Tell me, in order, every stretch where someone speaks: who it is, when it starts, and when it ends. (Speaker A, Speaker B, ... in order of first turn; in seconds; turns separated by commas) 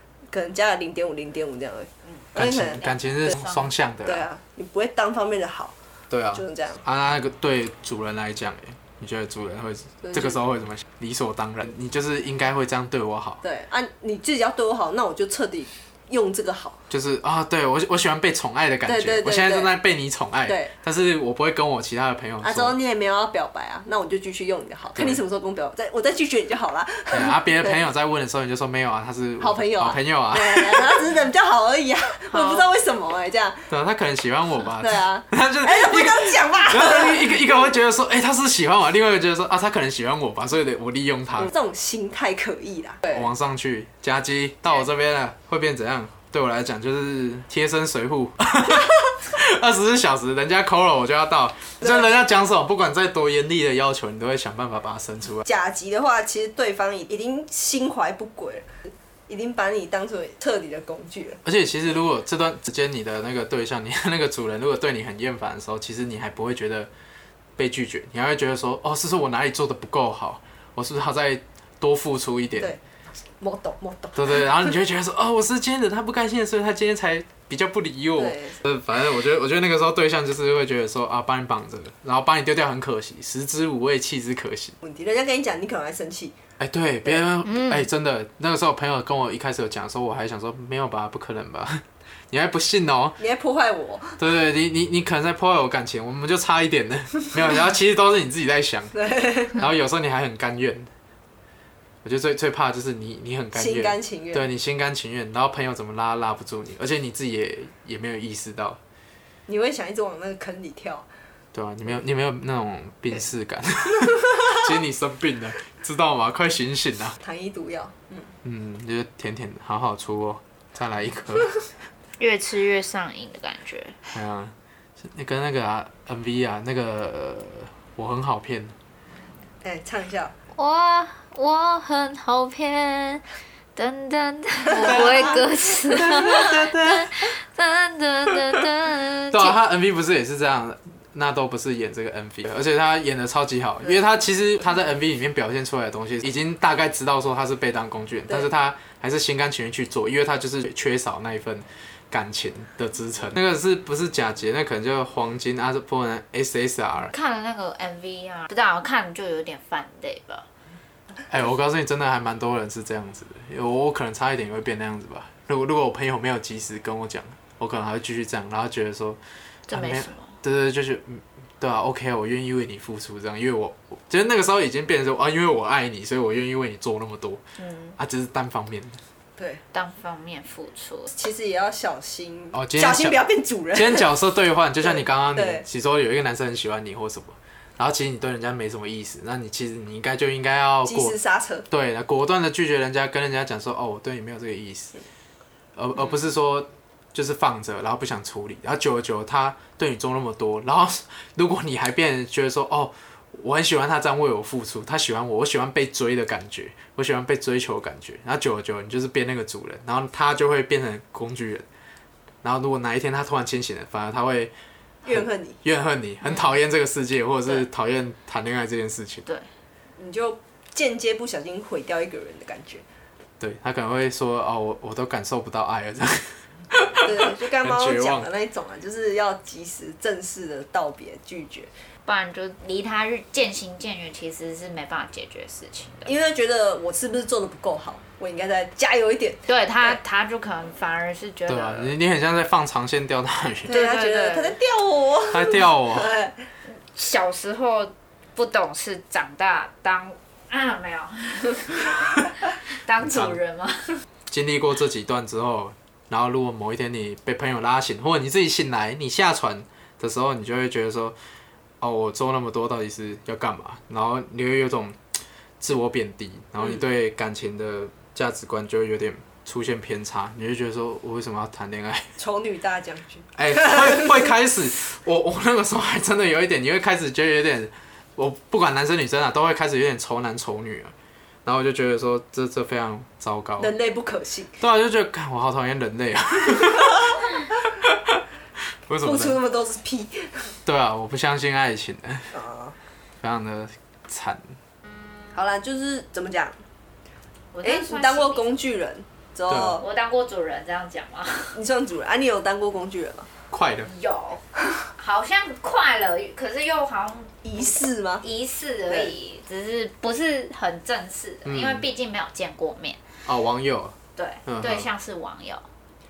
Speaker A: 0.3-2.9, Speaker B: 2.4-4.2, Speaker C: 2.8-3.7, Speaker A: 4.0-5.7, Speaker B: 6.1-13.4, Speaker A: 6.3-6.8, Speaker A: 10.0-10.4, Speaker A: 13.4-16.8, Speaker B: 16.9-22.8, Speaker A: 18.9-19.7, Speaker A: 20.4-20.7, Speaker A: 22.4-27.8, Speaker B: 24.9-25.2, Speaker B: 27.1-31.0, Speaker A: 29.4-33.7, Speaker C: 32.3-32.6, Speaker B: 33.7-41.5, Speaker A: 34.8-37.4, Speaker A: 41.4-43.1, Speaker B: 43.1-55.5, Speaker A: 55.4-61.4, Speaker B: 61.4-66.9, Speaker B: 67.6-72.8, Speaker A: 73.4-74.5, Speaker B: 74.1-84.8, Speaker A: 78.2-78.6, Speaker A: 84.8-86.3, Speaker B: 86.6-93.2, Speaker C: 87.4-87.9, Speaker A: 93.2-94.2, Speaker B: 94.2-100.9, Speaker A: 99.0-99.5, Speaker B: 102.0-108.8, Speaker A: 103.5-104.5, Speaker A: 109.5-111.0, Speaker B: 111.5-117.2, Speaker A: 117.2-118.3, Speaker B: 118.4-121.5, Speaker C: 122.2-124.0, Speaker B: 124.1-128.7, Speaker A: 129.6-130.3, Speaker C: 130.5-133.2, Speaker C: 133.8-139.6, Speaker A: 134.8-135.2, Speaker B: 134.8-135.3, Speaker B: 135.9-137.2, Speaker B: 139.3-157.1, Speaker C: 157.1-160.4, Speaker B: 161.3-177.4, Speaker C: 169.7-170.3, Speaker C: 177.6-177.9, Speaker B: 178.0-179.0, Speaker C: 179.7-181.1, Speaker A: 181.1-184.1, Speaker B: 182.5-183.2, Speaker B: 183.7-191.1, Speaker A: 185.0-185.6, Speaker A: 190.8-191.7, Speaker B: 191.7-195.0, Speaker B: 195.8-211.7, Speaker B: 212.4-214.5, Speaker A: 215.0-215.6, Speaker B: 215.1-219.2, Speaker A: 220.0-222.8, Speaker B: 223.4-228.3, Speaker A: 227.0-231.7, Speaker C: 232.1-236.1, Speaker A: 236.0-240.0, Speaker C: 239.5-241.9, Speaker B: 241.5-243.8, Speaker C: 243.7-244.6, Speaker A: 243.7-246.4, Speaker B: 245.3-246.1, Speaker C: 246.8-253.9, Speaker B: 253.0-253.4, Speaker B: 254.3-261.1, Speaker B: 261.8-265.0, Speaker B: 265.6-272.1, Speaker A: 272.2-274.0, Speaker B: 273.3-280.9, Speaker B: 281.4-283.7, Speaker A: 283.6-284.5, Speaker B: 284.6-288.2, Speaker B: 288.9-289.4, Speaker A: 289.0-290.5, Speaker B: 290.6-292.3, Speaker A: 292.3-292.7, Speaker B: 293.2-294.4, Speaker A: 295.3-296.6, Speaker C: 297.5-298.5, Speaker A: 297.6-299.8, Speaker B: 299.5-299.8, Speaker C: 299.8-301.6, Speaker A: 301.5-303.3, Speaker B: 303.5-303.9, Speaker C: 303.9-307.6, Speaker A: 307.4-308.2, Speaker C: 308.2-313.0, Speaker B: 311.4-311.8, Speaker B: 313.2-314.9, Speaker C: 314.1-315.6